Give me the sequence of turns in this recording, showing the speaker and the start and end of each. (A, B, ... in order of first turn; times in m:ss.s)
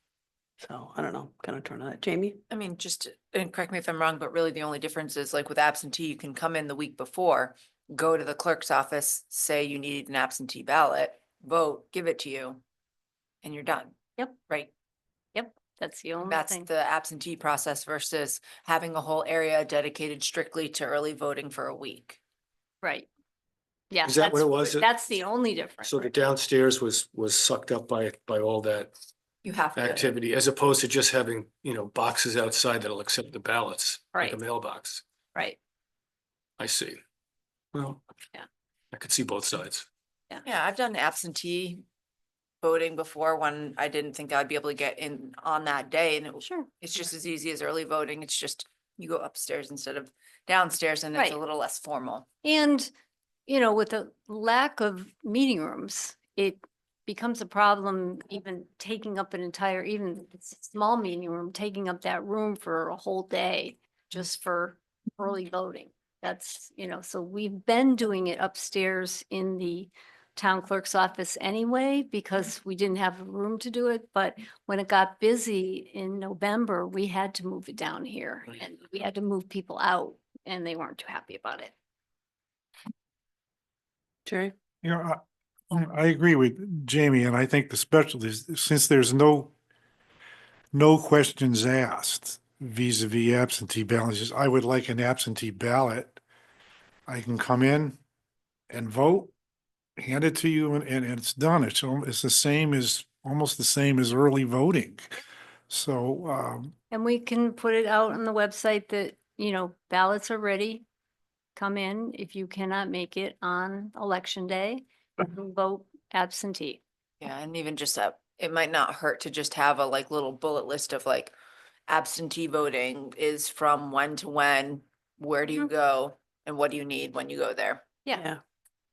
0:00.6-0:02.4 A
0:02.5-0:12.6 B
0:13.4-0:14.0 B
0:15.3-0:16.7 C
0:16.2-0:22.2 B
0:22.8-0:23.1 C
0:23.9-0:26.1 C
0:24.0-0:24.9 D
0:25.8-0:29.0 D
0:29.4-0:30.1 B
0:29.7-0:35.0 D
0:36.6-0:37.0 D
0:37.7-0:38.0 D
0:38.9-0:39.9 D
0:40.4-0:41.8 B
0:42.6-0:52.2 B
0:46.4-0:46.7 C
0:52.4-0:52.9 C
0:53.5-1:21.7 C
1:24.2-1:24.5 A
1:24.8-1:29.5 E
1:30.7-1:36.2 E
1:37.1-1:38.0 E
1:38.7-1:39.3 E
1:40.0-1:45.1 E
1:45.7-1:46.7 E
1:46.9-1:50.8 C
1:51.5-1:56.8 C
1:57.2-2:01.3 B
2:01.9-2:07.9 B
2:08.1-2:08.4 A